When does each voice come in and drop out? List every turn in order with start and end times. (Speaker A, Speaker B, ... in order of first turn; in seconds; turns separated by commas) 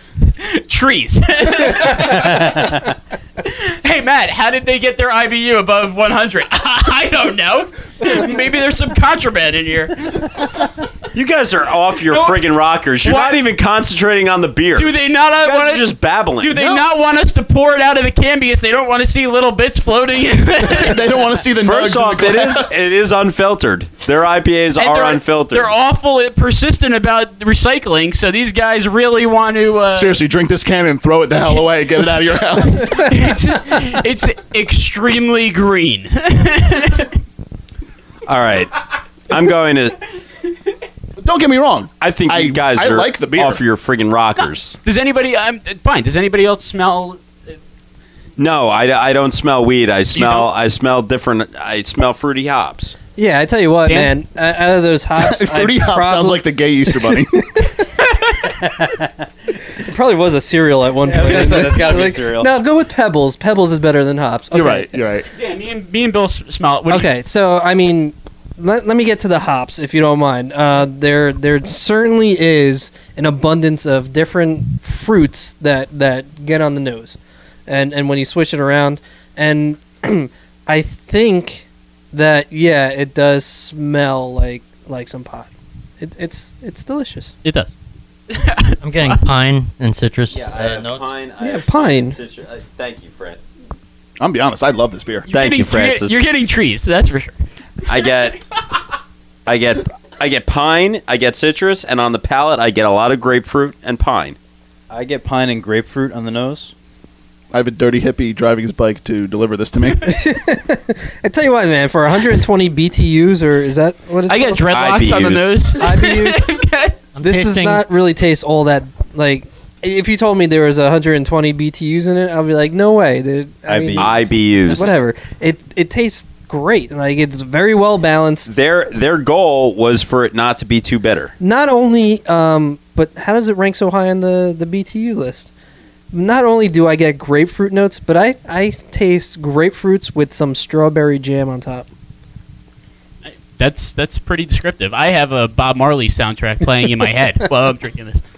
Speaker A: 0.4-2.6, Speaker A: 3.4-10.3, Speaker B: 11.1-16.6, Speaker A: 12.1-12.5, Speaker A: 13.0-13.4, Speaker A: 14.8-21.1, Speaker C: 20.7-22.9, Speaker B: 21.6-25.7, Speaker A: 24.8-30.2, Speaker C: 29.9-33.1, Speaker A: 32.6-37.1, Speaker B: 38.3-38.8, Speaker B: 39.3-40.0, Speaker C: 41.2-43.6, Speaker B: 42.0-44.8, Speaker A: 44.8-47.2, Speaker B: 48.4-53.0, Speaker A: 50.1-50.5, Speaker D: 53.2-57.2, Speaker A: 53.9-54.1, Speaker C: 55.2-57.5, Speaker E: 58.6-59.1, Speaker D: 59.8-65.0, Speaker E: 61.0-62.5, Speaker C: 64.5-65.3, Speaker A: 65.3-67.1, Speaker D: 66.9-87.4, Speaker A: 87.5-87.7, Speaker A: 88.3-89.2, Speaker F: 88.8-91.1, Speaker B: 90.3-93.4, Speaker D: 91.4-92.2, Speaker C: 94.2-95.3, Speaker A: 95.3-97.3, Speaker B: 95.3-96.2, Speaker B: 97.9-98.4, Speaker B: 99.5-104.4, Speaker E: 104.9-106.7, Speaker C: 107.5-110.2, Speaker D: 110.0-114.7, Speaker A: 114.3-117.0, Speaker B: 114.7-115.7, Speaker D: 115.8-116.5, Speaker F: 117.2-117.8, Speaker D: 117.2-128.5, Speaker E: 123.7-124.3, Speaker B: 124.0-125.0, Speaker B: 128.5-131.3, Speaker D: 131.4-135.5, Speaker D: 136.1-141.9, Speaker A: 143.3-148.2